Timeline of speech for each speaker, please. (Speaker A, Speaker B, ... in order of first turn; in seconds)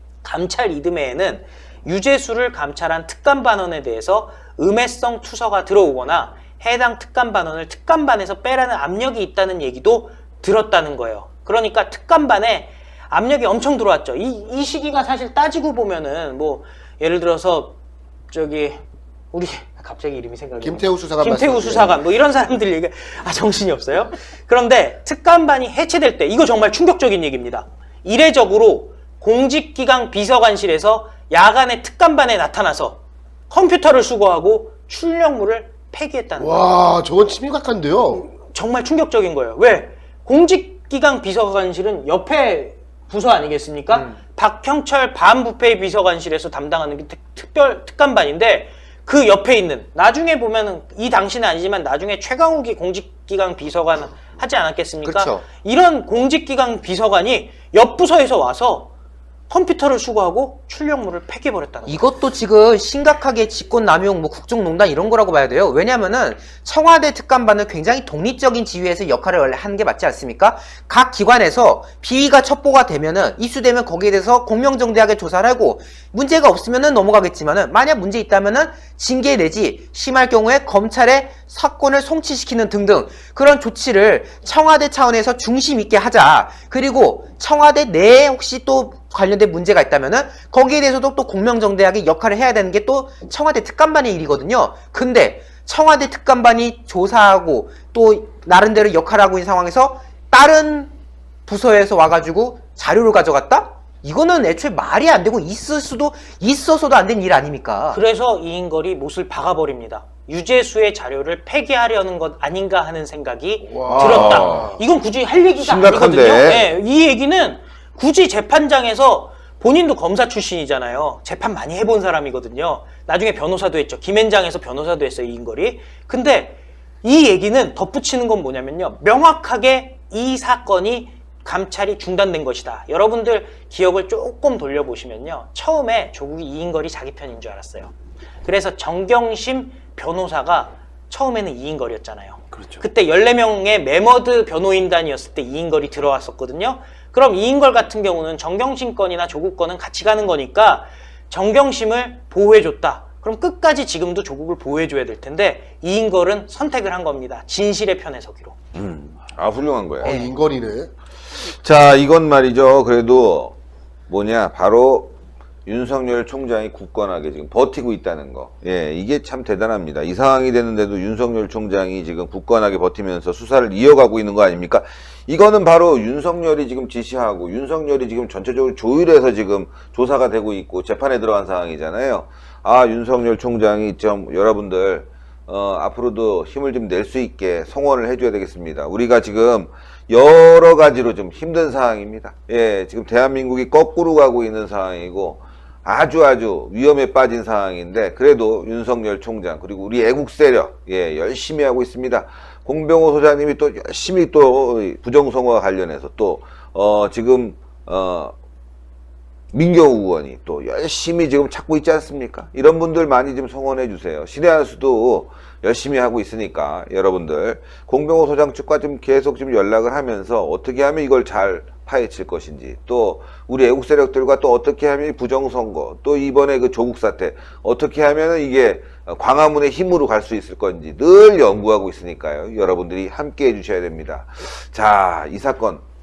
Speaker A: 0.2-17.8, 18.3-36.9, 38.3-58.9, 59.5-62.1, 107.9-137.9, 138.4-158.6
Speaker B: 20.6-22.0, 36.4-38.3, 113.8-114.7, 160.0-160.9
Speaker C: 55.0-55.5, 61.9-100.9, 101.5-108.0, 160.0-160.3
Speaker D: 113.9-114.7, 115.6-116.7, 158.8-160.2, 161.4-163.6, 164.1-165.1, 165.7-208.3, 209.5-235.8